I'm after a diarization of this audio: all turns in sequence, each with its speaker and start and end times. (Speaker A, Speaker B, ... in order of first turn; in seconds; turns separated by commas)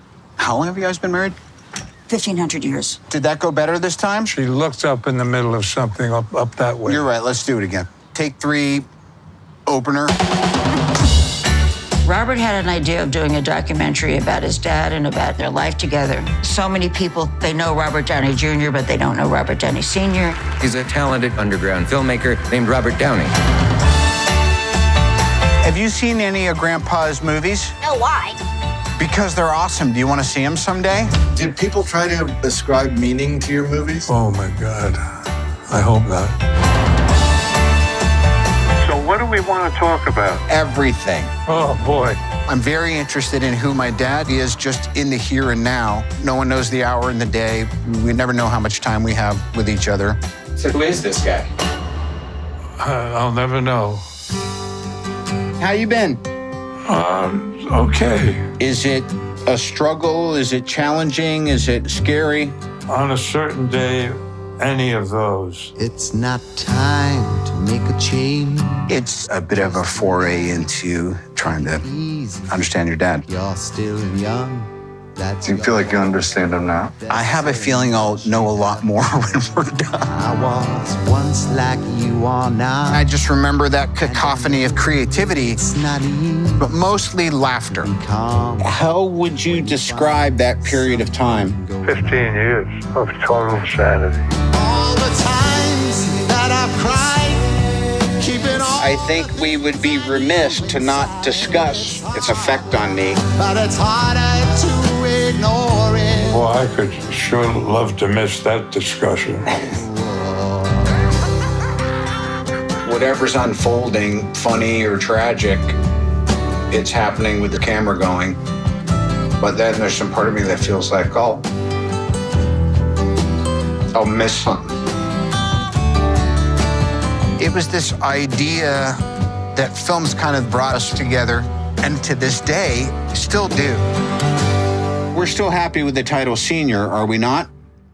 Speaker A: 0.4-1.4, Speaker B: 2.1-3.0, Speaker A: 3.1-4.3, Speaker C: 4.3-7.0, Speaker A: 6.8-8.9, Speaker A: 9.7-10.2, Speaker B: 12.0-20.5, Speaker D: 20.6-23.3, Speaker A: 25.6-27.8, Speaker A: 29.0-31.1, Speaker E: 31.4-34.1, Speaker C: 34.1-36.4, Speaker C: 38.9-40.4, Speaker A: 40.5-41.3, Speaker C: 41.5-42.2, Speaker A: 42.5-50.2, Speaker D: 50.6-51.5, Speaker C: 52.8-54.1, Speaker A: 55.6-56.2, Speaker C: 56.9-58.5, Speaker A: 58.6-62.5, Speaker C: 62.9-65.7, Speaker F: 65.8-68.9, Speaker A: 68.9-71.9, Speaker F: 69.6-70.7, Speaker F: 71.6-72.6, Speaker A: 72.5-73.3, Speaker F: 73.3-78.9, Speaker E: 75.4-76.9, Speaker A: 77.1-80.1, Speaker F: 80.1-83.1, Speaker A: 82.9-85.6, Speaker F: 84.0-86.7, Speaker A: 86.6-87.9, Speaker F: 87.8-88.8, Speaker A: 88.6-91.6, Speaker F: 89.4-92.3, Speaker C: 91.8-94.3, Speaker F: 94.6-97.5, Speaker F: 98.1-102.6, Speaker A: 98.8-103.2, Speaker F: 103.2-106.4, Speaker C: 106.2-109.5, Speaker F: 109.6-110.8, Speaker A: 112.8-115.8, Speaker A: 116.7-118.4, Speaker A: 119.4-121.5, Speaker A: 123.9-124.7, Speaker A: 127.4-129.0, Speaker A: 129.6-133.8, Speaker A: 135.1-137.5